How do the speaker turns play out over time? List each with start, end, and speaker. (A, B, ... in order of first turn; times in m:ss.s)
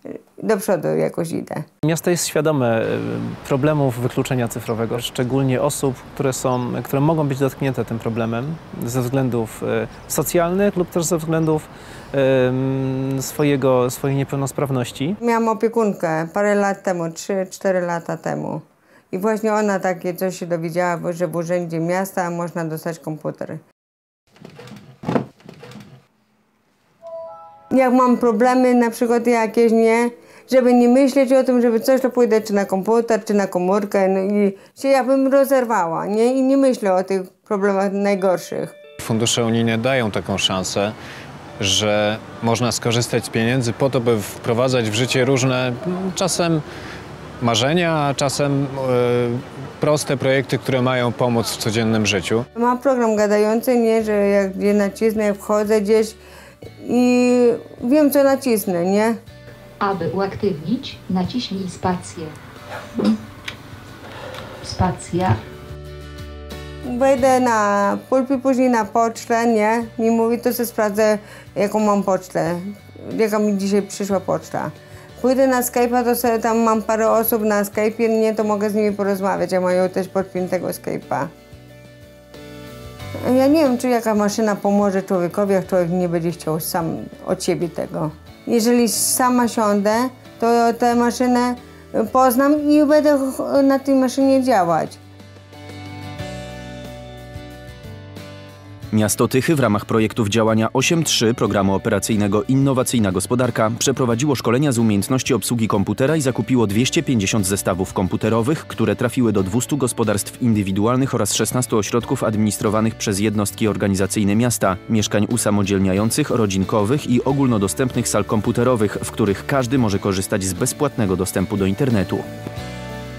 0:00.4-0:01.6 A
0:01.8-0:15.2 B
0:15.2-0:23.6 A
0:27.7-0:38.8 A
0:39.0-0:41.0 C
0:41.6-0:46.6 C
0:47.4-0:52.4 C
0:52.6-0:56.2 A
0:56.8-0:59.2 A
0:59.8-1:02.3 D
1:04.6-1:05.4 D
1:06.8-1:21.3 A
1:23.2-1:35.0 A
1:38.9-2:02.3 E